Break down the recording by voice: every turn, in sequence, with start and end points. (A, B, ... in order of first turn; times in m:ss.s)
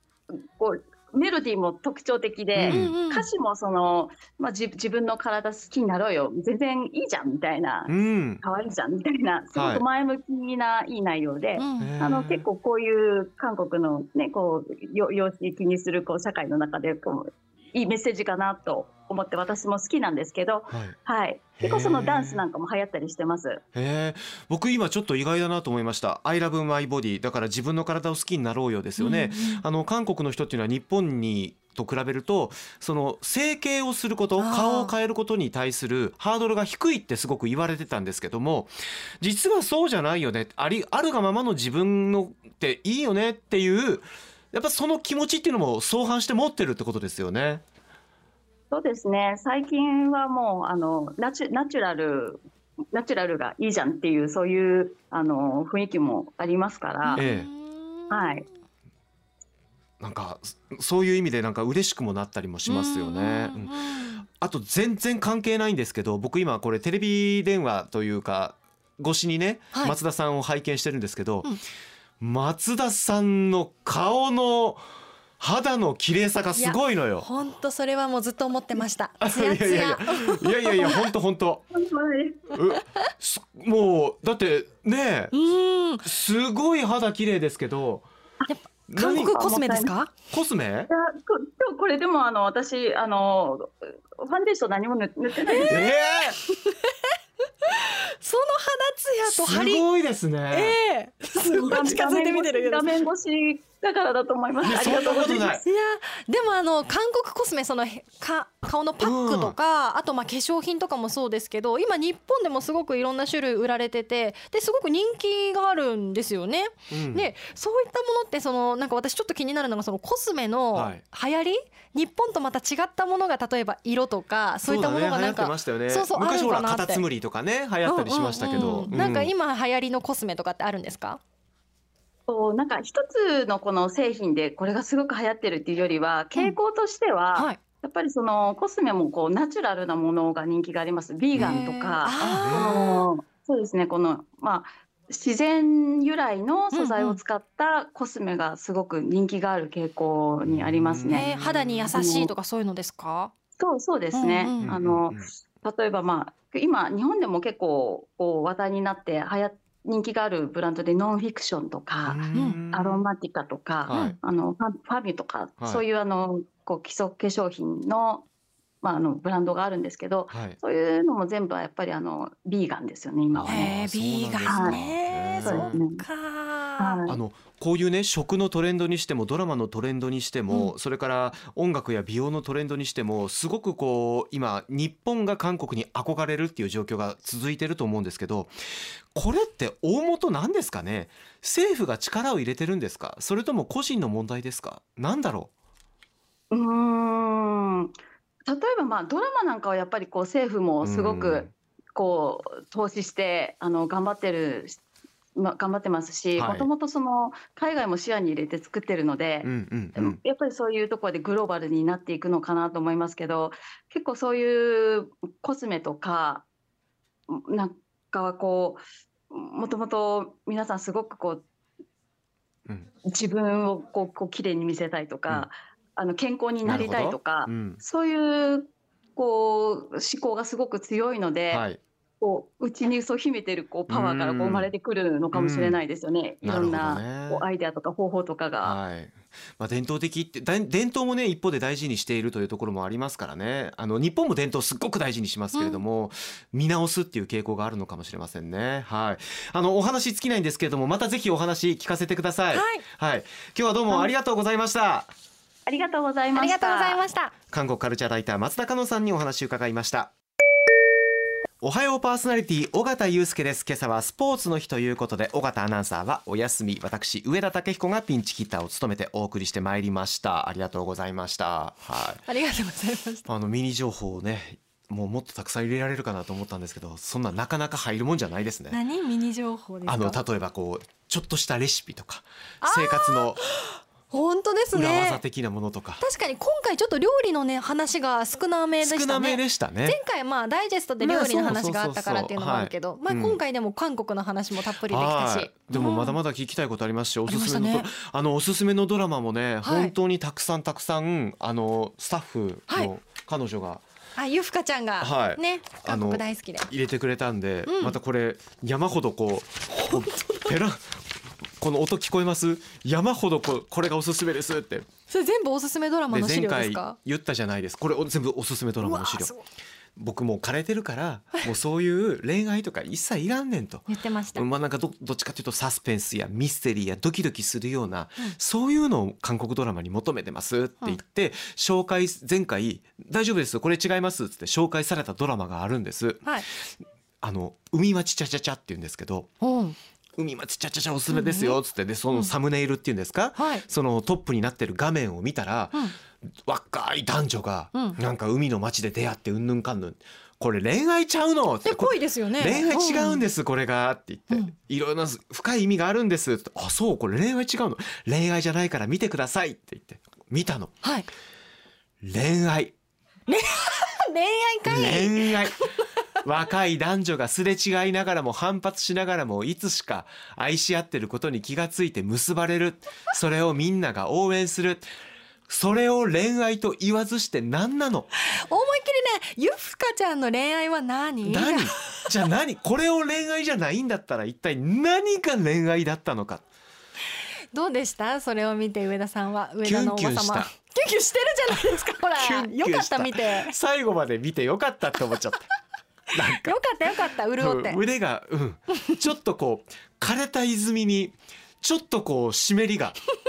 0:00.3-0:23.6 A
0:02.5-0:03.0 B
0:02.7-0:03.3 C
0:07.9-0:08.4 B
0:09.5-0:09.8 B
0:11.6-0:11.9 C
0:11.8-0:12.4 B
0:20.7-0:21.0 B
0:21.6-0:22.4 B
0:23.7-0:47.6 B
0:29.0-0:29.6 C
0:34.4-0:34.9 C
0:48.7-0:52.4 A
0:52.9-0:57.2 A
0:57.0-0:58.5 C
0:57.2-0:57.5 B
0:58.1-0:58.4 A
1:00.0-1:11.5 B
1:02.6-1:04.2 C
1:12.2-1:14.8 B
1:15.4-1:17.3 B
1:16.5-1:21.1 C
1:19.2-1:21.6 B
1:21.7-1:22.6 A
1:22.5-1:25.3 B
1:25.3-1:26.1 C
1:26.0-1:28.1 B
1:28.5-1:30.1 C
1:28.9-1:29.6 B
1:29.0-1:29.9 A
1:30.3-1:30.9 B
1:30.9-1:35.9 A
1:35.5-1:37.1 C
1:35.6-1:36.4 B
1:37.6-1:39.8 C
1:39.2-1:40.8 B
1:40.5-1:43.1 C
1:41.3-1:45.6 A
1:44.6-1:45.6 B
1:44.9-2:07.0 C
1:49.0-1:49.6 B
1:56.9-1:57.3 B
2:00.7-2:01.0 B
2:04.7-2:09.3 B
2:07.8-2:11.2 C
2:12.3-2:31.3 A
2:21.3-2:21.6 B
2:21.4-2:23.0 C
2:22.2-2:22.8 B
2:26.7-2:27.2 C
2:30.4-2:32.0 B
2:31.1-2:33.3 C
2:31.9-2:32.3 A
2:33.6-2:48.2 A
2:34.1-2:34.7 C
2:34.6-2:35.3 B
2:42.0-2:43.0 B
2:42.3-2:42.6 C
2:43.8-2:44.2 B
2:43.9-2:44.2 C
2:48.8-2:53.8 A
2:50.3-2:50.6 B
2:53.3-2:55.8 B
2:53.5-2:57.0 C
2:54.5-2:54.8 A
2:55.4-2:56.0 A
2:56.8-2:57.2 A
2:57.0-3:08.5 B
3:09.1-3:15.5 B
3:16.5-3:18.0 A
3:18.5-3:24.8 A
3:20.8-3:21.5 B
3:25.3-3:36.4 A
3:26.4-3:26.7 B
3:29.4-3:30.2 B
3:37.3-3:41.4 A
3:43.0-3:51.6 A
3:46.6-3:47.8 B
3:51.5-3:51.8 B
3:52.2-3:58.8 A
3:53.9-3:54.7 B
3:55.3-3:55.8 B
3:56.4-3:57.4 B
3:58.6-4:15.1 B
4:05.5-4:05.8 C
4:12.5-4:12.8 C
4:15.7-4:17.0 A
4:16.4-4:17.3 C
4:17.5-4:20.1 B
4:21.6-4:32.2 B
4:32.3-4:33.2 C
4:33.2-4:38.8 B
4:38.7-4:40.2 C
4:39.8-4:43.4 B
4:42.6-4:45.2 C
4:44.7-4:46.0 B
4:46.0-4:56.2 C
4:48.8-4:50.0 B
4:51.0-4:53.4 B
4:54.9-5:03.8 B
4:57.3-4:57.9 C
4:59.6-4:59.9 C
5:04.2-5:06.7 C
5:05.0-5:11.0 B
5:07.7-5:08.0 C
5:09.8-5:10.5 C
5:11.6-5:14.9 B
5:15.1-5:17.0 C
5:16.1-5:19.3 B
5:18.8-5:19.4 C
5:20.0-5:36.3 B
5:23.9-5:24.4 C
5:37.2-5:39.3 B
5:39.4-5:39.8 C
5:40.2-6:00.7 B
5:41.1-5:41.6 C
5:43.4-5:43.6 C
5:51.6-5:53.2 C
6:02.0-6:02.7 B
6:03.3-6:05.8 C
6:04.6-6:05.6 B
6:06.2-6:14.8 B
6:15.5-6:18.1 B
6:18.3-6:22.1 C
6:21.2-6:26.4 B
6:27.5-6:33.5 C
6:29.6-6:30.5 B
6:31.5-6:35.5 B
6:36.1-6:36.6 B
6:36.3-6:37.8 C
6:37.4-6:43.0 B